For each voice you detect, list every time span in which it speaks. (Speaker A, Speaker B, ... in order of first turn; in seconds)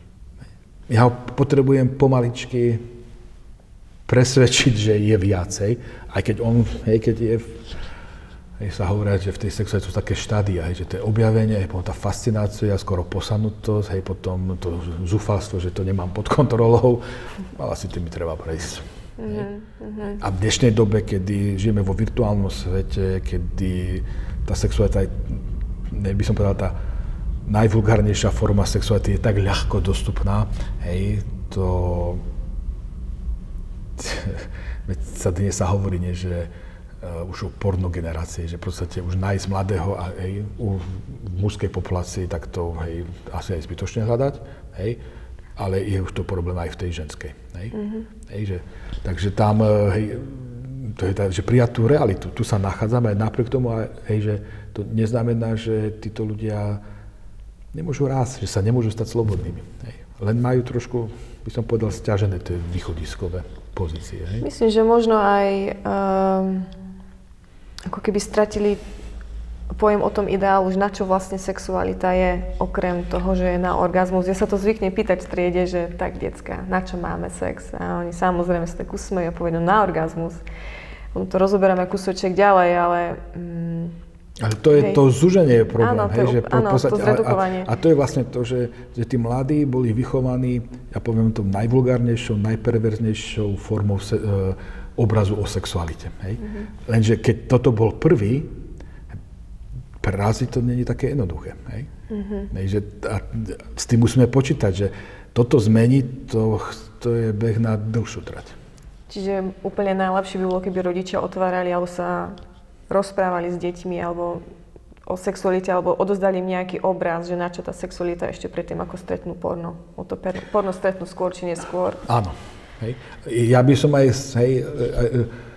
Speaker A: 0.9-2.9, 4.1-7.7, 8.6-19.5, 20.2-26.7, 27.4-32.2, 34.0-45.0, 45.6-47.8, 48.3-56.8, 57.7-64.5, 84.4-98.5, 100.0-101.9, 102.5-108.6, 122.1-125.3
Speaker B: 19.2-20.2, 47.7-48.1, 64.4-66.7, 67.9-68.8, 69.7-80.4, 81.1-84.0, 84.7-85.0, 85.7-87.7, 96.4-96.7, 102.1-102.5, 109.1-112.4, 112.9-114.4, 115.1-122.1